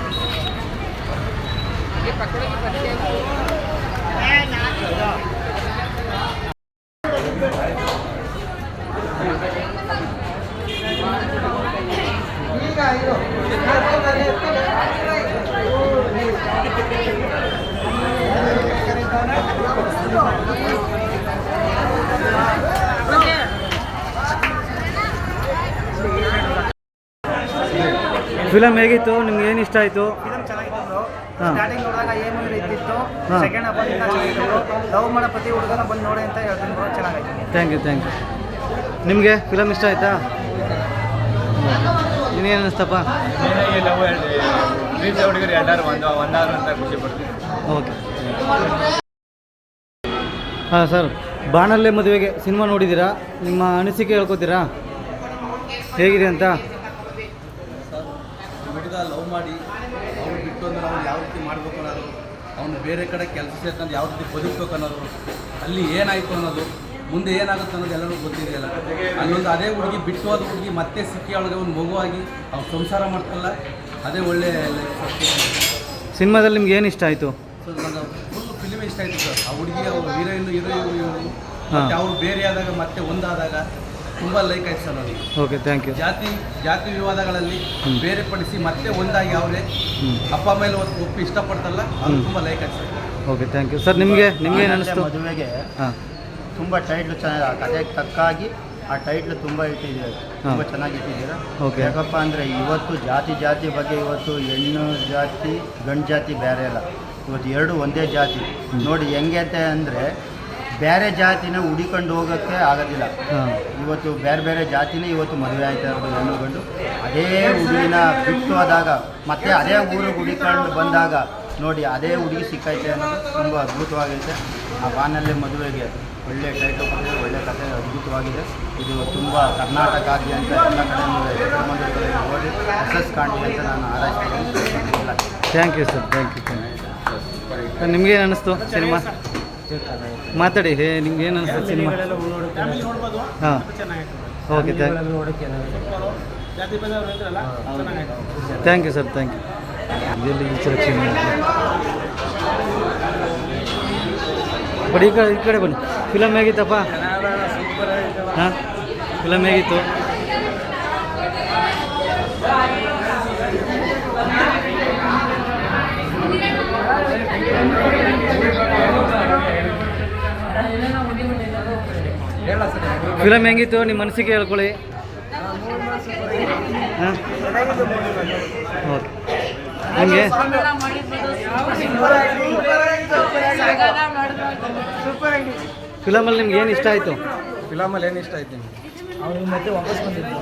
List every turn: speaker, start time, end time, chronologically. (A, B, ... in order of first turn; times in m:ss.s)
0:28.4-0:30.2 A
0:30.2-0:37.5 B
0:37.5-0:38.1 A
0:39.0-0:40.2 A
0:41.6-0:43.1 A
0:43.3-0:47.3 C
0:47.7-0:48.4 A
0:50.7-0:54.6 A
0:55.9-0:56.6 A
0:58.6-0:59.6 D
1:00.2-1:05.1 D
1:05.6-1:13.5 D
1:14.0-1:15.6 D
1:16.2-1:17.4 A
1:17.6-1:23.6 D
1:24.2-1:25.2 D
1:25.4-1:26.0 A
1:25.9-1:29.6 D
1:30.3-1:32.9 D
1:33.3-1:35.1 A
1:33.9-1:35.7 E
1:36.6-1:50.1 E
1:41.6-1:41.9 A
1:50.8-1:53.1 E
1:53.3-1:53.6 A
1:53.7-2:15.2 E
2:15.5-2:16.7 A
2:17.8-2:19.1 A
2:20.3-2:22.2 A
2:23.4-2:23.7 A
2:24.5-2:25.0 A
2:28.6-2:29.4 A
2:30.1-2:31.4 A
2:34.8-2:37.0 A
2:37.2-2:38.2 C
2:38.3-2:38.6 A
2:39.2-2:39.9 A
2:53.1-2:54.8 A
2:58.8-2:59.1 A
2:59.9-3:00.5 A
3:06.0-3:07.2 A
3:07.7-3:08.7 C
3:07.7-3:08.5 D